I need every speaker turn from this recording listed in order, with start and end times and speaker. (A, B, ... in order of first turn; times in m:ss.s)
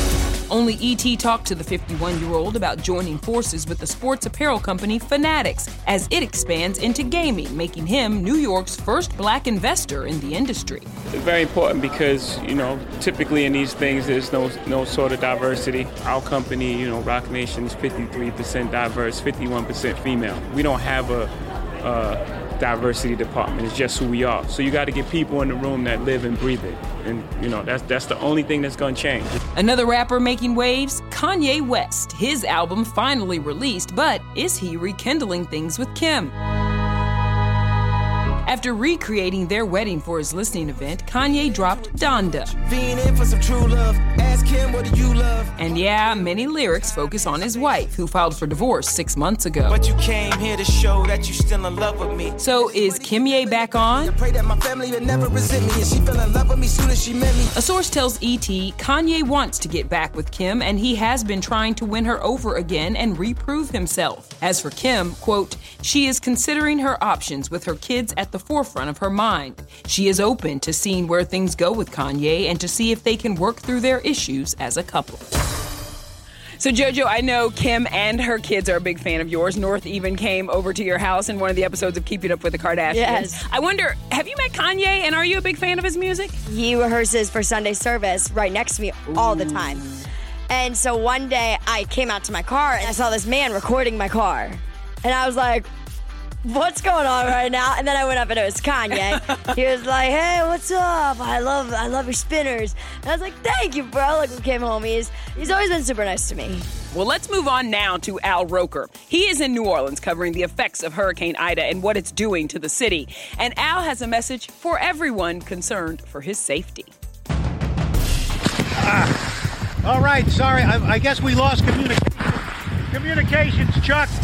0:00.5-0:10.9 A
0:11.1-0:29.4 B
0:29.6-0:36.3 A
0:38.5-0:42.6 A
0:42.5-0:45.5 C
0:45.6-0:49.8 A
0:49.7-0:57.5 C
0:52.4-0:54.2 A
0:57.5-1:15.3 A
1:16.6-1:26.4 A
1:22.9-1:23.4 D
1:26.5-1:29.8 D
1:29.1-1:30.0 A
1:30.5-1:35.7 D
1:36.4-1:46.7 D
1:46.9-1:56.9 A
1:58.8-1:59.1 E
1:59.8-2:02.4 E
2:02.9-2:04.1 E